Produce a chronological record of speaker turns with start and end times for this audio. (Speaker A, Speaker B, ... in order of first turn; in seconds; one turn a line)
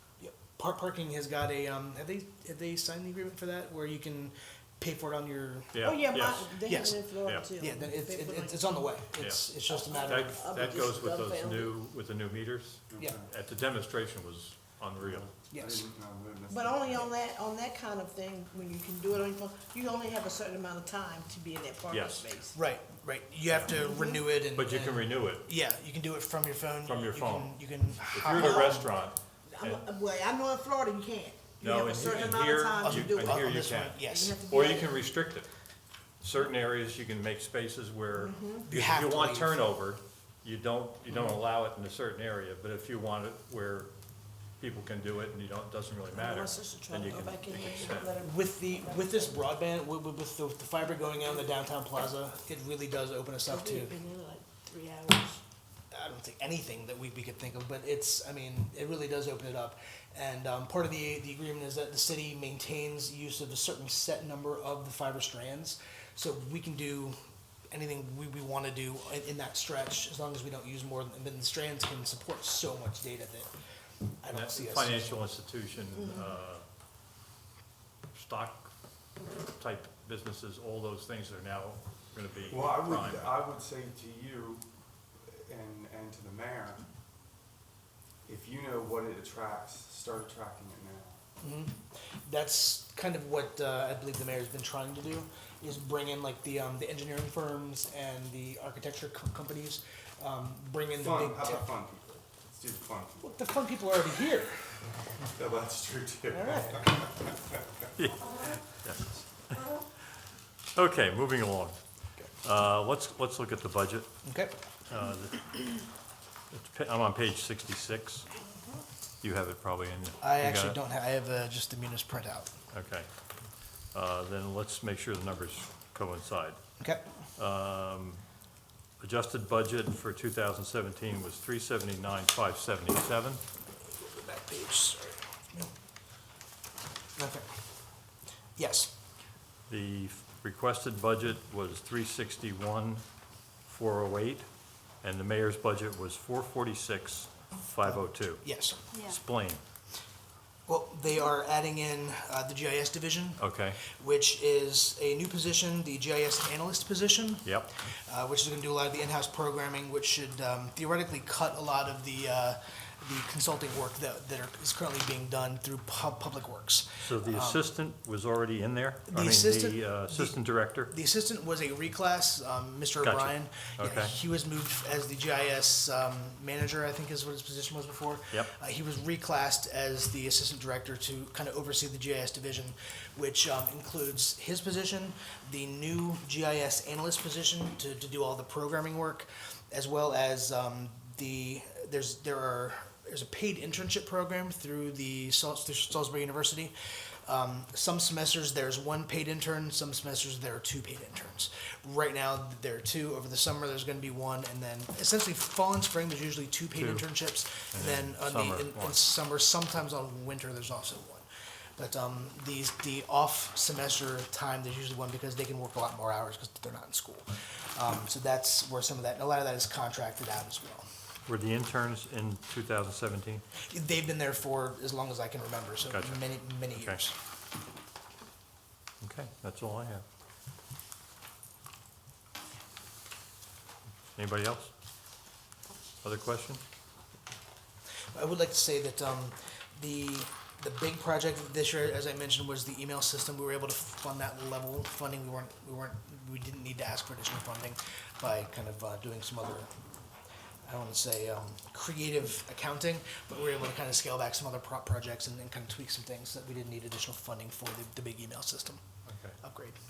Speaker A: 0.2-5.9
Speaker B: 5.7-6.6
Speaker C: 5.8-9.0
Speaker A: 6.6-10.3
Speaker B: 7.2-7.5
Speaker B: 9.2-15.3
Speaker C: 9.7-11.7
Speaker D: 12.9-13.3
Speaker D: 15.0-17.1
Speaker A: 15.5-15.8
Speaker C: 16.5-22.6
Speaker B: 21.9-22.4
Speaker A: 22.6-28.9
Speaker B: 23.5-23.8
Speaker C: 23.7-24.2
Speaker B: 24.5-25.5
Speaker B: 26.9-29.8
Speaker C: 28.3-28.9
Speaker C: 29.5-35.0
Speaker B: 31.6-35.5
Speaker A: 31.8-34.4
Speaker B: 36.2-43.9
Speaker C: 38.1-38.7
Speaker A: 38.7-39.6
Speaker B: 44.6-48.1
Speaker C: 46.1-49.5
Speaker A: 48.2-54.0
Speaker C: 53.5-55.4
Speaker A: 55.9-67.2
Speaker A: 67.7-73.5
Speaker A: 74.2-75.3
Speaker B: 74.3-76.6
Speaker B: 78.1-78.7
Speaker B: 79.6-83.4
Speaker D: 82.5-84.7
Speaker D: 85.3-86.8
Speaker D: 88.3-91.2
Speaker A: 91.4-101.7
Speaker D: 100.9-103.3
Speaker A: 103.2-104.6
Speaker D: 105.3-107.3
Speaker A: 106.3-107.0
Speaker B: 108.0-109.7
Speaker B: 110.8-111.8
Speaker B: 112.4-114.1
Speaker A: 114.2-114.5
Speaker B: 114.9-115.7
Speaker B: 116.5-118.3
Speaker B: 119.2-120.8
Speaker A: 120.2-122.5
Speaker B: 122.7-123.1
Speaker B: 123.9-126.6
Speaker B: 127.4-128.2
Speaker B: 129.0-133.4
Speaker A: 133.9-135.7
Speaker A: 137.2-137.5
Speaker A: 138.6-138.9
Speaker B: 139.7-143.0
Speaker B: 143.7-144.5
Speaker B: 145.0-149.6
Speaker A: 147.9-148.8
Speaker A: 150.7-167.6
Speaker B: 153.4-153.8
Speaker B: 157.4-157.7
Speaker B: 167.0-170.9
Speaker A: 169.1-196.7
Speaker B: 173.0-174.1
Speaker A: 197.3-211.3
Speaker B: 206.7-207.1
Speaker B: 207.7-209.0
Speaker A: 211.8-220.9
Speaker B: 221.3-223.4
Speaker A: 223.7-227.1
Speaker B: 225.9-227.0
Speaker B: 229.0-230.0
Speaker B: 234.2-234.7
Speaker B: 236.0-236.6
Speaker A: 238.1-249.7
Speaker A: 250.7-258.8
Speaker B: 259.1-259.4
Speaker A: 259.4-259.8